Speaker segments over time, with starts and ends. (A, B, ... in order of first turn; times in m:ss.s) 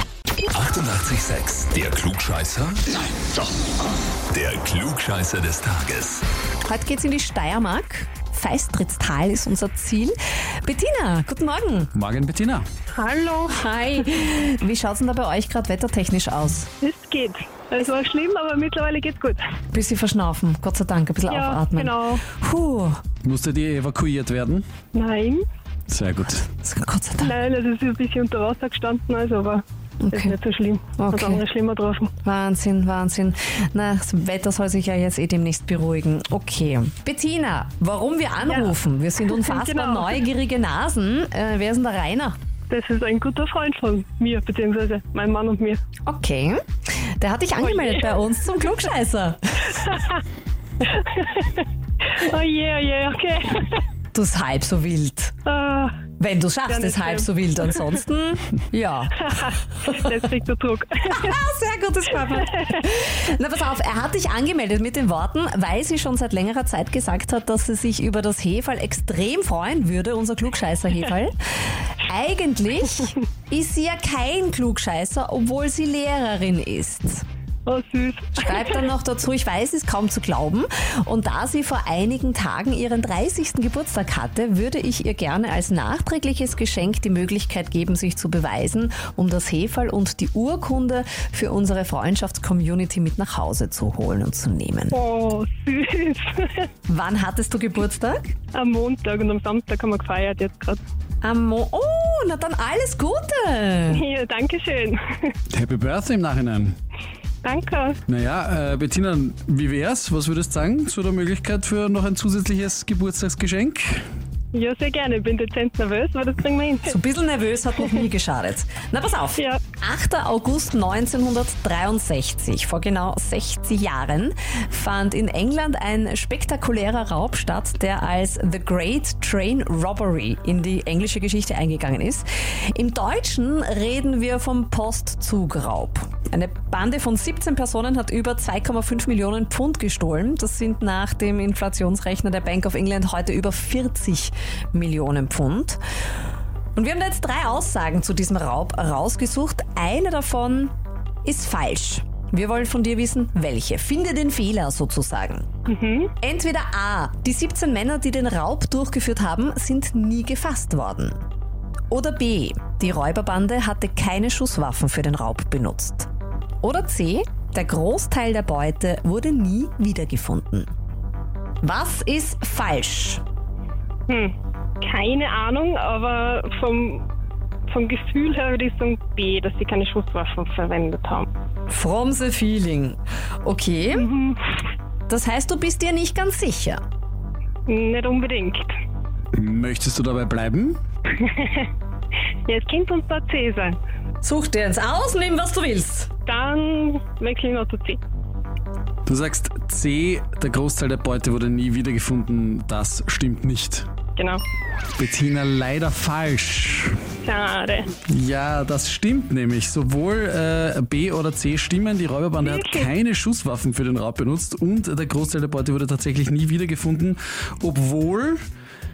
0:00.5-0:02.8 A
0:04.3-0:06.2 A
0:06.6-0:11.9 B
0:11.9-0:12.6 C
0:12.9-0:13.6 D
0:13.5-0:16.7 B
0:16.8-0:19.4 D
0:19.7-0:23.0 B
0:21.3-0:22.2 D
0:23.2-0:24.6 C
0:24.9-0:25.4 D
0:25.9-0:26.4 C
0:26.4-0:27.3 B
0:27.2-0:32.1 D
0:30.0-0:30.3 B
0:31.0-0:31.4 B
0:32.2-0:42.4 B
0:38.4-0:38.7 D
0:39.2-0:40.2 D
0:42.7-0:45.8 D
0:46.0-0:46.6 B
0:47.2-0:49.9 B
0:47.6-0:48.2 D
0:49.8-0:50.1 D
0:50.8-0:53.8 D
0:54.1-0:55.3 B
0:55.4-0:56.0 D
0:56.2-0:59.6 B
0:56.7-0:57.3 D
0:59.2-1:01.3 D
1:01.1-1:11.4 B
1:02.4-1:02.8 D
1:12.0-1:17.2 B
1:17.6-1:18.8 D
1:18.4-1:35.0 B
1:34.9-1:36.6 D
1:36.9-1:38.3 B
1:38.5-1:40.8 D
1:41.2-1:44.0 B
1:43.9-1:45.3 D
1:45.5-1:46.7 C
1:47.4-1:48.0 D
1:48.1-1:54.0 C
1:54.5-1:57.0 D
1:56.9-2:25.8 B
1:59.4-1:59.6 D
2:26.8-2:30.7 B
2:31.2-2:35.4 B
2:35.7-2:36.1 D
2:36.2-2:41.2 B
2:41.9-2:46.1 B
2:46.6-2:50.7 B
2:51.6-2:53.2 B
2:54.1-2:57.1 D
2:57.7-3:01.3 D
3:01.7-3:04.1 B
3:03.9-3:04.4 D
3:05.1-3:06.8 B
3:07.7-3:08.7 D
3:09.3-3:10.8 C
3:11.2-3:11.7 D
3:12.4-3:13.8 D
3:14.2-3:16.1 B
3:16.2-3:18.0 D
3:19.0-3:23.9 C
3:24.2-3:24.4 D
3:25.0-3:27.0 C
3:27.2-3:27.9 D
3:28.1-3:38.4 C
3:32.4-3:32.9 D